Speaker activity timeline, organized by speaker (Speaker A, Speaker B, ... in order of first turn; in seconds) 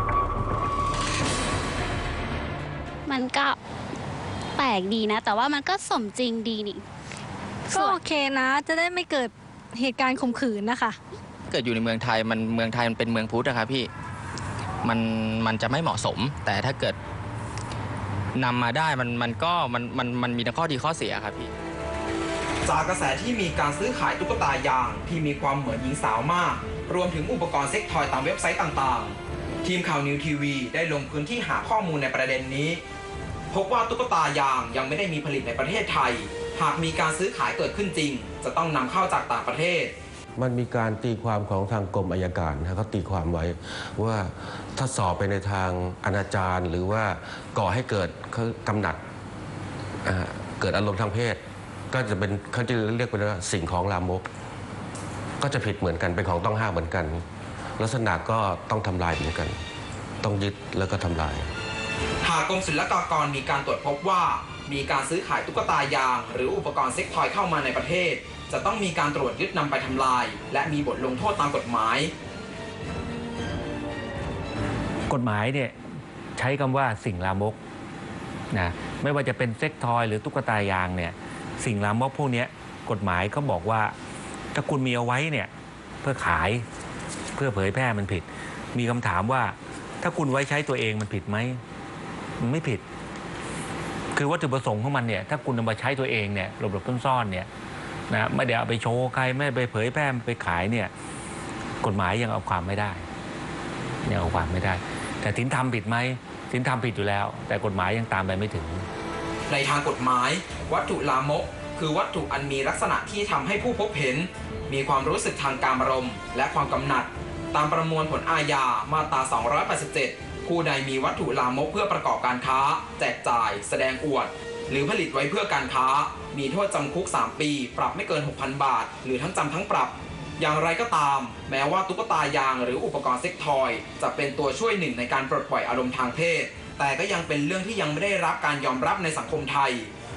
Speaker A: 3.1-3.6, 4.6-6.8
Speaker B: 7.7-11.0
Speaker C: 11.5-13.9, 14.8-17.0, 18.3-21.5
Speaker D: 22.6-32.8, 33.5-39.9, 62.2-72.1, 109.5-139.9
Speaker E: 40.4-49.0, 50.0-51.4, 51.9-54.2, 55.4-57.2, 57.8-59.5, 60.2-61.5
Speaker F: 75.1-75.7, 76.3-77.6, 78.5-83.9, 84.5-85.5, 86.0-86.6, 87.3-91.6, 92.4-92.8, 94.1-97.5, 98.1-100.9, 101.8-103.0, 104.0-108.9